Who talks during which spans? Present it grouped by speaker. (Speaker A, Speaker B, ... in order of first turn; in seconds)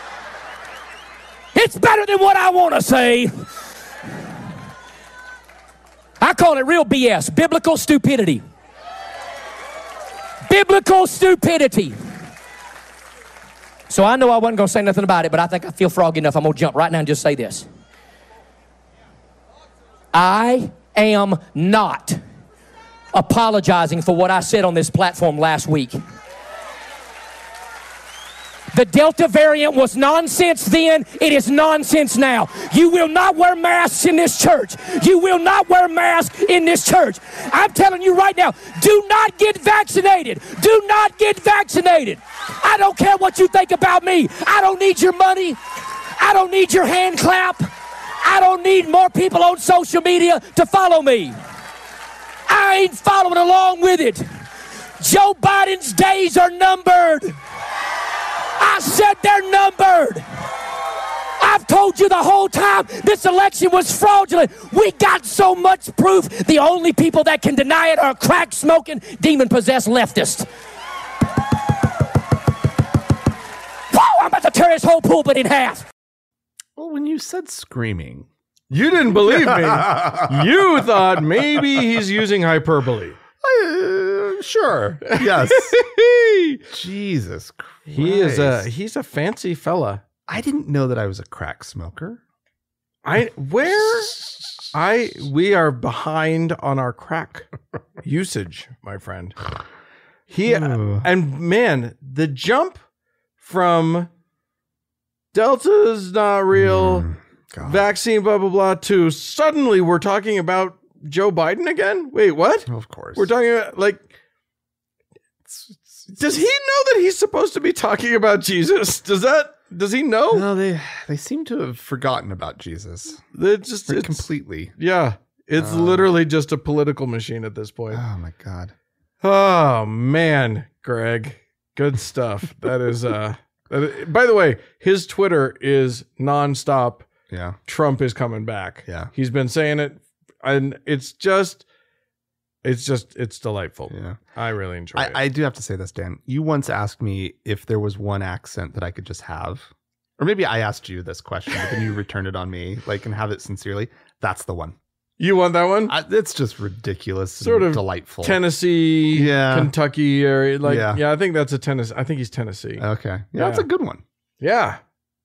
Speaker A: 1.6-3.5, 6.2-8.4, 10.5-12.0, 13.9-17.7, 20.1-22.2, 23.1-26.0, 28.7-45.6, 46.2-47.7, 48.2-51.4, 52.5-54.3, 55.0-57.4, 58.6-60.2, 61.4-70.5, 73.9-75.9
Speaker B: 76.8-78.3, 79.1-80.5, 83.4-88.7, 90.3-92.2, 100.5-101.1, 106.5-107.8, 112.7-113.3, 115.5-116.4, 120.3-123.2, 123.9-124.7, 125.6-126.1, 127.9-128.7, 137.3-137.6, 143.9-144.2, 144.9-154.8, 155.9-158.4, 159.1-159.7, 160.6-161.0, 162.8-164.0
Speaker C: 78.7-83.2, 85.0-86.0, 87.9-90.0, 93.0-97.5, 98.0-99.4, 100.3-102.8, 103.4-104.1, 105.3-107.1, 107.6-114.1, 116.2-120.5, 123.3-128.0, 129.2-137.1, 137.7-141.6, 142.6-145.2, 155.2-155.9, 157.4-162.8, 163.4-163.7, 164.4-164.8